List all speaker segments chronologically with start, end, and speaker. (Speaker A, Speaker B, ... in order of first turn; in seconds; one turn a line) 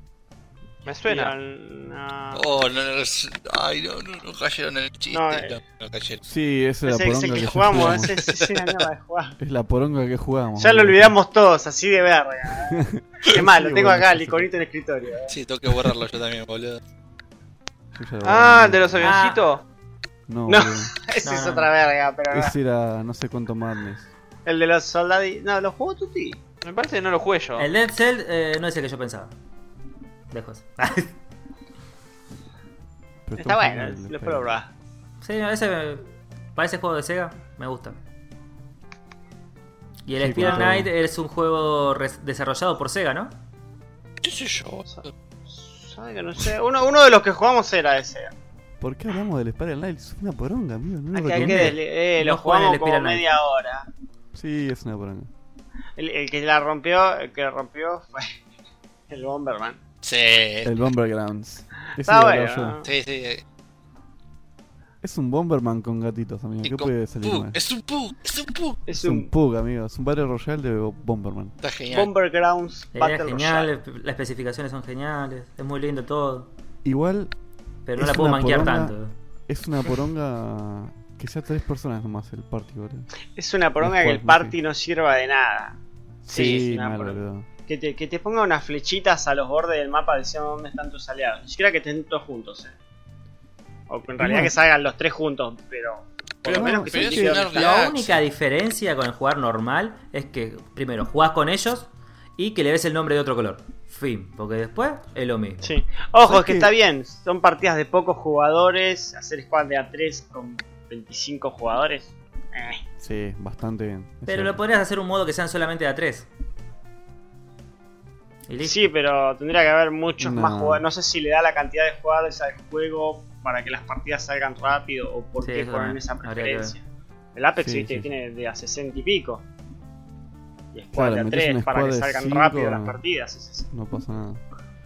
Speaker A: 0.8-1.3
Speaker B: 1.1-2.5
Speaker C: 2.3-6.2
Speaker B: 5.1-5.5
Speaker D: 6.2-8.2
Speaker B: 6.8-9.4
Speaker C: 7.7-8.2
Speaker D: 9.4-11.1
Speaker B: 10.6-15.3
Speaker D: 12.7-14.5
Speaker C: 15.3-16.8
Speaker D: 17.9-19.1
Speaker A: 18.2-19.6
Speaker E: 19.0-19.4
Speaker D: 20.3-20.9
Speaker B: 20.5-22.5
Speaker E: 21.2-21.7
Speaker D: 22.3-24.1
Speaker B: 24.4-26.4
Speaker A: 26.6-27.7
Speaker E: 27.6-29.3
Speaker E: 30.3-31.1
Speaker D: 33.2-34.5
Speaker B: 33.4-34.7
Speaker E: 35.2-38.0
Speaker E: 40.0-43.4
Speaker D: 40.2-40.9
Speaker C: 44.2-45.1
Speaker B: 44.9-48.3
Speaker D: 48.8-51.8
Speaker B: 51.1-53.9
Speaker E: 51.3-53.2
Speaker D: 54.3-55.3
Speaker B: 56.0-58.3
Speaker B: 59.1-59.8
Speaker C: 60.0-60.7
Speaker D: 60.6-62.8
Speaker B: 62.0-62.9
Speaker C: 62.8-63.4
Speaker D: 65.0-67.6
Speaker C: 66.6-68.8
Speaker B: 68.8-69.3
Speaker D: 68.9-71.5
Speaker C: 71.6-72.1
Speaker B: 71.9-73.7
Speaker E: 72.9-76.5
Speaker D: 76.8-77.3
Speaker E: 77.8-79.1
Speaker D: 78.0-78.9
Speaker D: 79.5-83.1
Speaker B: 83.3-85.8
Speaker D: 83.8-84.5
Speaker D: 86.2-87.5
Speaker A: 86.3-86.6
Speaker B: 86.3-92.7
Speaker B: 93.9-97.7
Speaker D: 94.2-94.5
Speaker D: 96.4-97.5
Speaker C: 96.5-98.2
Speaker E: 97.5-105.7
Speaker B: 105.6-112.8
Speaker D: 106.2-106.7
Speaker D: 113.0-114.6
Speaker E: 114.3-116.3
Speaker E: 118.5-118.9
Speaker B: 118.6-126.8
Speaker D: 120.2-120.8
Speaker E: 125.4-126.8
Speaker B: 127.3-129.4
Speaker D: 127.6-128.1
Speaker B: 130.7-133.7
Speaker D: 130.9-133.0
Speaker D: 133.7-134.4